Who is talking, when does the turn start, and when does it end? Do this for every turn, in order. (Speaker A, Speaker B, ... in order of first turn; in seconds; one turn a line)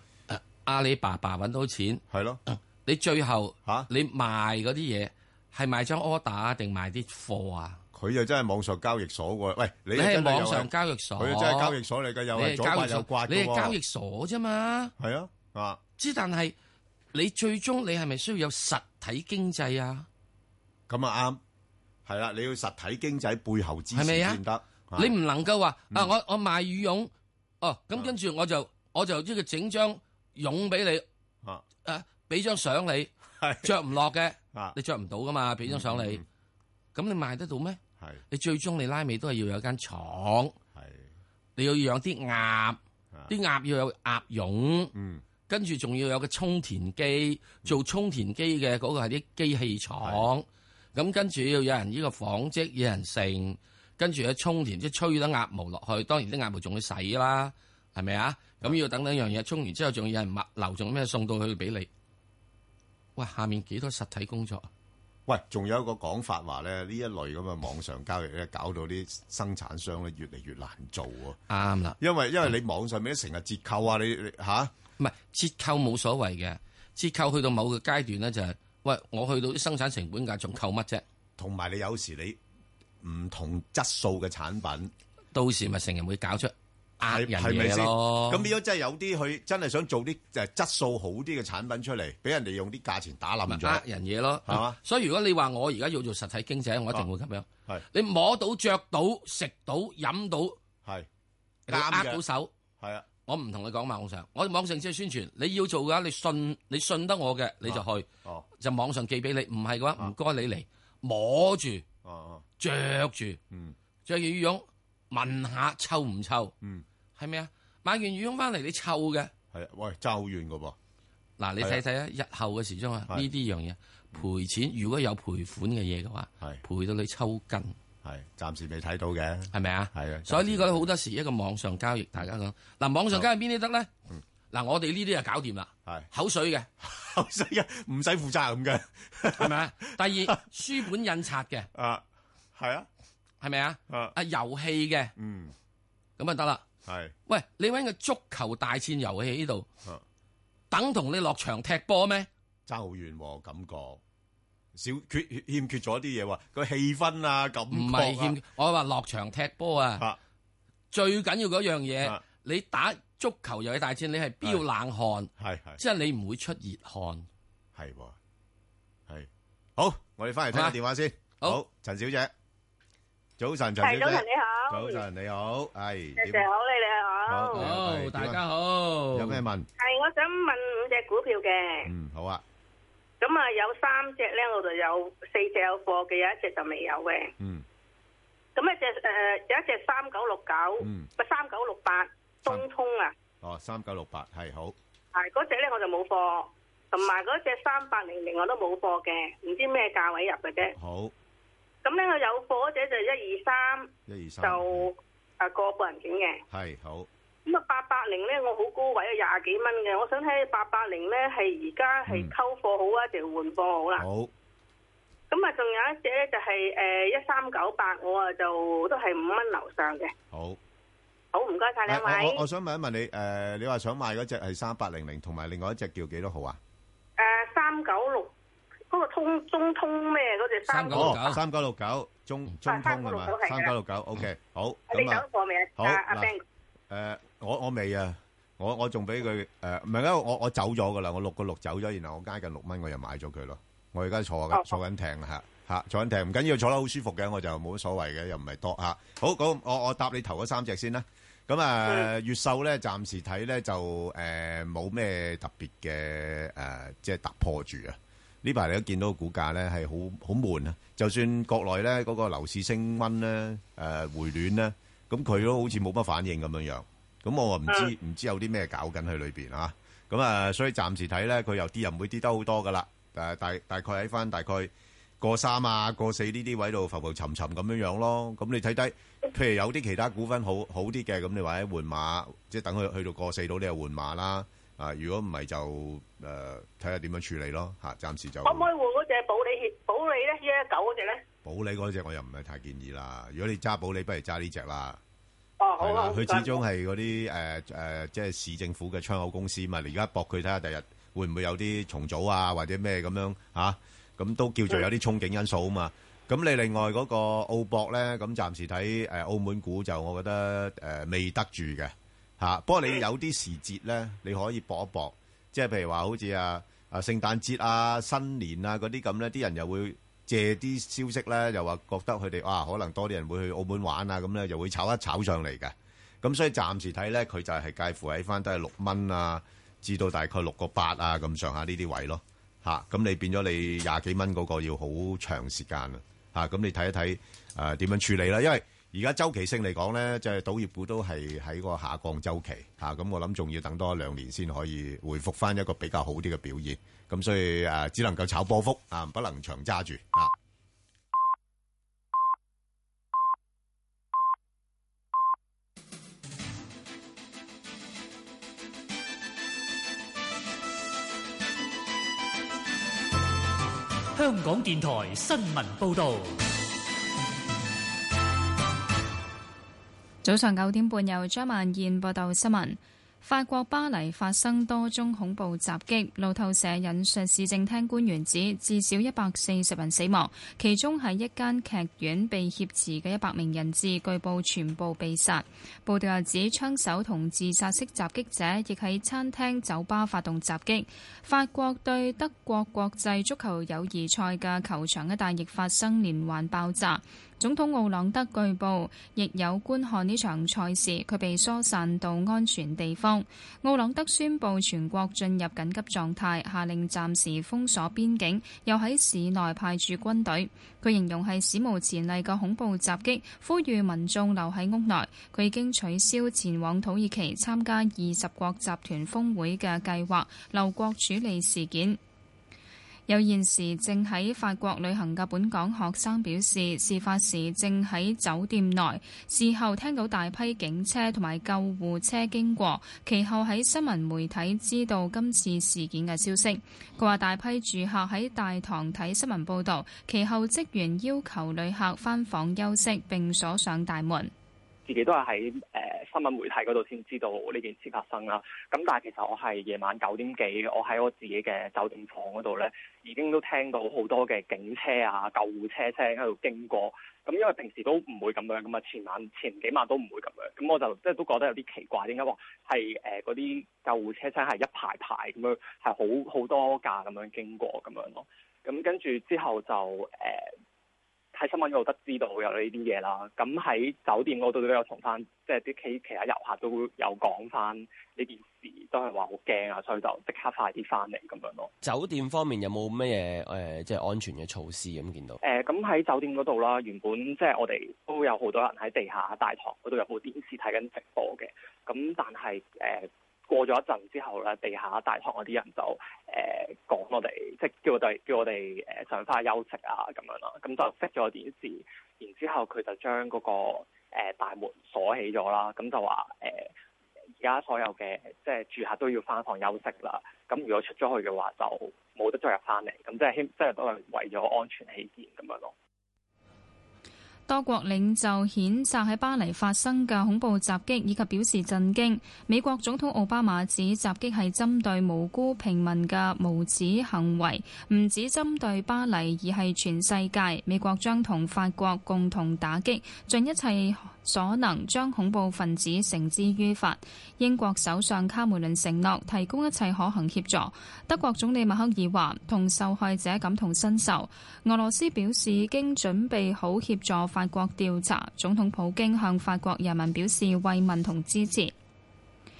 Speaker A: 0.3-7.8
Speaker B: 2.1-2.4
Speaker B: 7.9-13.8
Speaker A: 9.9-11.8
Speaker A: 12.3-14.9
Speaker B: 15.0-15.8
Speaker A: 16.0-16.5
Speaker A: 17.1-20.1
Speaker B: 20.9-21.4
Speaker B: 22.1-25.1
Speaker A: 23.9-24.4
Speaker A: 24.9-27.1
Speaker A: 27.6-31.0
Speaker A: 31.8-33.1
Speaker B: 33.4-33.7
Speaker A: 33.6-36.2
Speaker B: 35.6-36.2
Speaker A: 36.9-40.5
Speaker B: 40.7-41.1
Speaker A: 41.5-42.8
Speaker A: 43.3-44.9
Speaker B: 44.9-45.2
Speaker A: 45.5-61.9
Speaker B: 50.0-50.3
Speaker A: 63.1-64.7
Speaker B: 65.3-71.4
Speaker A: 71.5-72.0
Speaker B: 72.0-74.7
Speaker A: 75.0-81.0
Speaker B: 81.4-82.4
Speaker B: 83.0-84.9
Speaker A: 85.3-88.5
Speaker B: 87.0-93.8
Speaker A: 93.5-100.6
Speaker B: 94.4-94.8
Speaker A: 101.7-102.5
Speaker B: 101.7-102.2
Speaker B: 102.8-103.0
Speaker A: 103.2-108.0
Speaker B: 107.6-108.5
Speaker A: 108.6-111.8
Speaker B: 112.0-112.4
Speaker A: 112.6-113.4
Speaker A: 114.0-116.5
Speaker A: 117.2-119.3
Speaker B: 119.5-120.8
Speaker A: 121.4-127.7
Speaker B: 128.0-130.9
Speaker A: 129.5-133.9
Speaker A: 134.5-136.7
Speaker B: 136.8-140.3
Speaker A: 139.3-141.7
Speaker B: 141.7-142.9
Speaker A: 143.4-145.1
Speaker B: 145.2-145.5
Speaker A: 146.2-146.6
Speaker B: 146.8-147.1
Speaker A: 147.3-149.7
Speaker A: 150.7-152.3
Speaker B: 152.7-154.0
Speaker B: 154.7-158.4
Speaker A: 157.7-160.1
Speaker A: 160.9-167.2
Speaker B: 165.4-165.8
Speaker B: 167.7-168.2
Speaker B: 169.1-172.3
Speaker B: 173.4-176.4
Speaker C: 173.8-175.0
Speaker C: 176.2-177.6
Speaker B: 177.3-178.4
Speaker A: 177.5-179.4
Speaker B: 179.1-179.7
Speaker C: 179.8-181.9
Speaker B: 181.8-182.4
Speaker C: 183.2-187.3
Speaker B: 187.4-187.6
Speaker C: 188.6-193.1
Speaker B: 190.8-191.1
Speaker B: 193.4-194.7
Speaker C: 195.1-200.7
Speaker B: 200.7-201.1
Speaker C: 201.8-203.9
Speaker B: 204.1-204.9
Speaker C: 204.4-206.4
Speaker B: 206.5-207.1
Speaker C: 207.4-214.0
Speaker B: 212.1-212.3
Speaker B: 214.0-214.3
Speaker C: 215.3-220.1
Speaker B: 220.3-220.6
Speaker C: 221.3-222.4
Speaker B: 221.9-226.6
Speaker C: 227.2-228.3
Speaker C: 228.9-231.2
Speaker A: 230.7-231.4
Speaker B: 230.9-235.2
Speaker C: 232.7-233.7
Speaker C: 234.9-236.4
Speaker B: 235.8-236.3
Speaker B: 236.9-288.7
Speaker C: 288.4-291.2
Speaker B: 291.4-295.0
Speaker C: 295.6-296.6
Speaker B: 295.8-350.3
Speaker D: 364.1-366.4
Speaker E: 370.2-422.0
Speaker E: 423.1-444.3
Speaker F: 444.9-470.5
Speaker F: 471.3-481.7
Speaker G: 481.8-485.4
Speaker F: 485.4-506.7
Speaker F: 507.4-515.7
Speaker E: 517.5-551.7